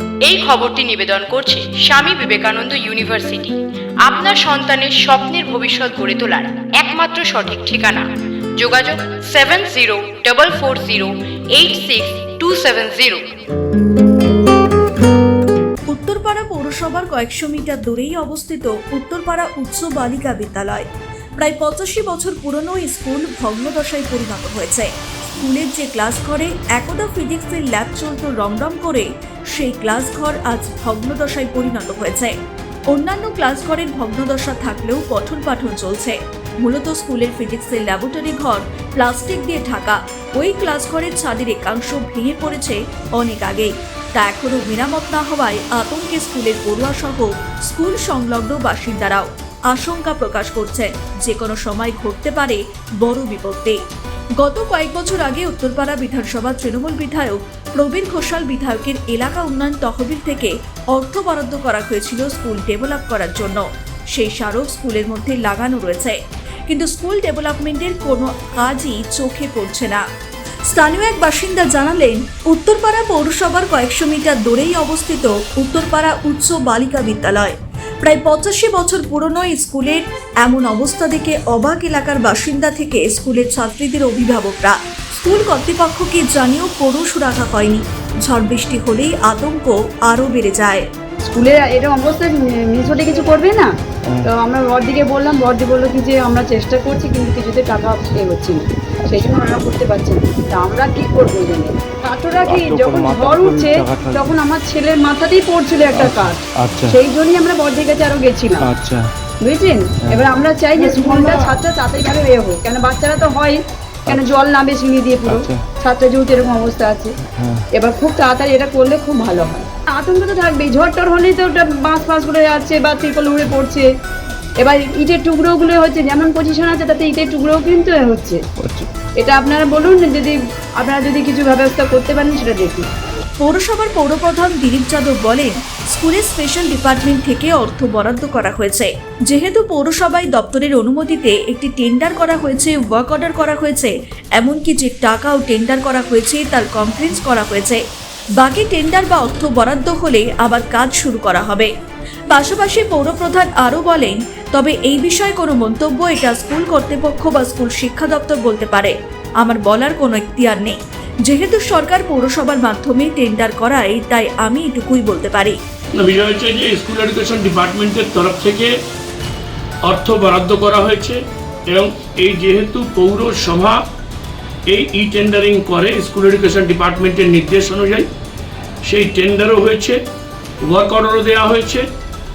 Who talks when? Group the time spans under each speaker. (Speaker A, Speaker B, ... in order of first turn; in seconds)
Speaker A: 0.2-13.3
Speaker B: 15.9-20.9, 21.4-32.4, 32.9-53.8, 54.4-70.0, 70.7-90.8, 133.4-147.8, 148.4-151.7, 152.3-165.6
Speaker C: 91.2-93.7, 94.3-108.7, 109.4-117.1, 117.8-123.9, 124.6-128.4, 129.2-132.9
Speaker D: 102.4-104.4, 105.9-107.0, 108.6-109.1, 110.9-111.5, 114.1-114.4, 115.2-115.6, 117.2-117.6, 128.6-128.9
Speaker E: 166.0-168.7, 169.8-171.2, 171.7-173.8, 174.7-178.1, 178.8-180.0, 180.7-181.8